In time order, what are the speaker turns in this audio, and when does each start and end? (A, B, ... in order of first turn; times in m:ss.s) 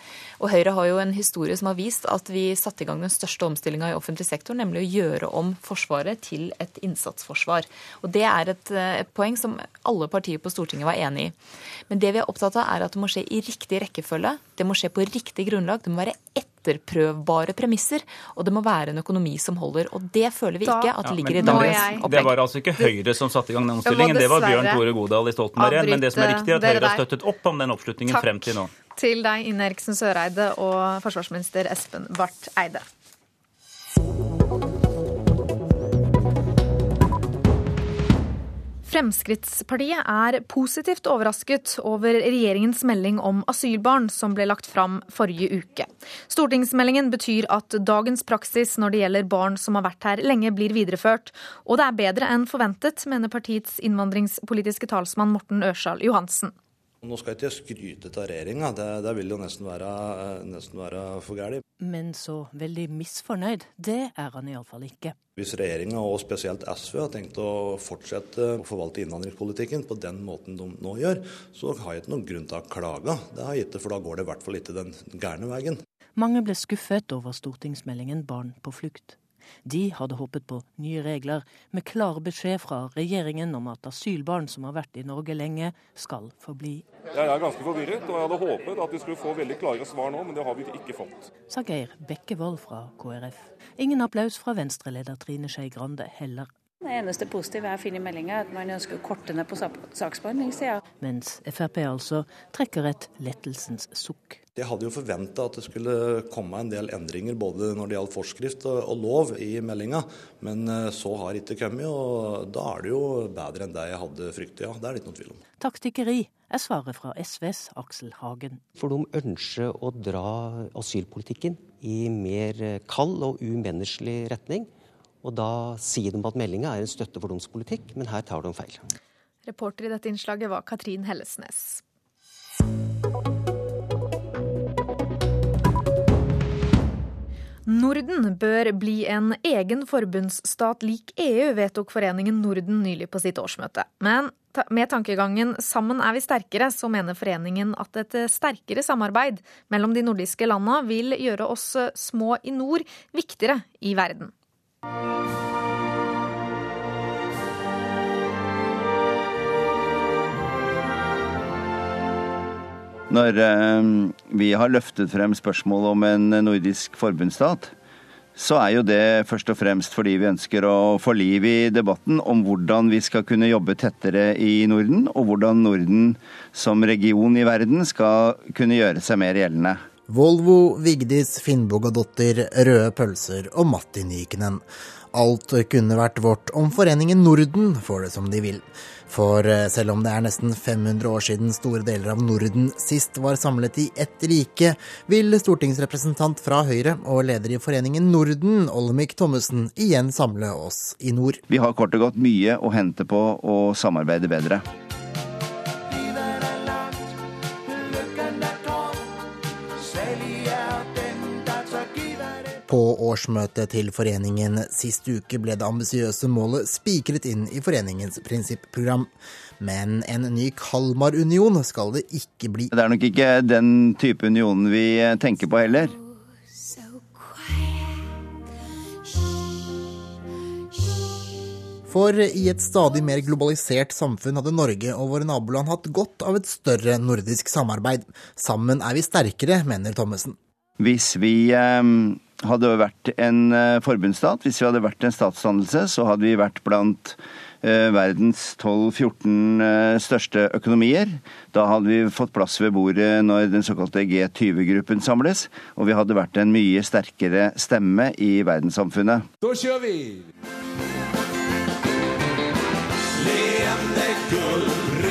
0:00.4-0:11.3 A
0:11.9-0:22.3 A
0:20.6-0:22.1 B
0:21.0-0:28.7 C
0:23.8-0:24.8 B
0:25.6-0:27.0 B
0:28.0-0:32.8 B
0:38.8-0:56.5 B
0:57.0-1:01.6 D
1:01.8-1:05.2 E
1:05.4-1:15.8 D
1:16.2-1:26.8 E
1:27.1-1:31.2 F
1:31.5-1:36.5 E
1:36.8-1:40.8 G
1:41.0-1:44.4 E
1:44.6-1:55.4 D
1:55.6-1:58.6 E
1:58.8-2:04.7 H
2:05.2-2:08.8 H
2:09.4-2:11.8 B
2:17.7-2:34.3 B
2:43.1-2:47.7 I
2:48.4-2:59.8 I
3:00.1-3:21.4 J
3:21.5-3:24.6 I
3:32.7-3:42.7 J
3:42.7-3:46.0 I
3:51.9-4:00.4 J
4:00.8-4:19.2 I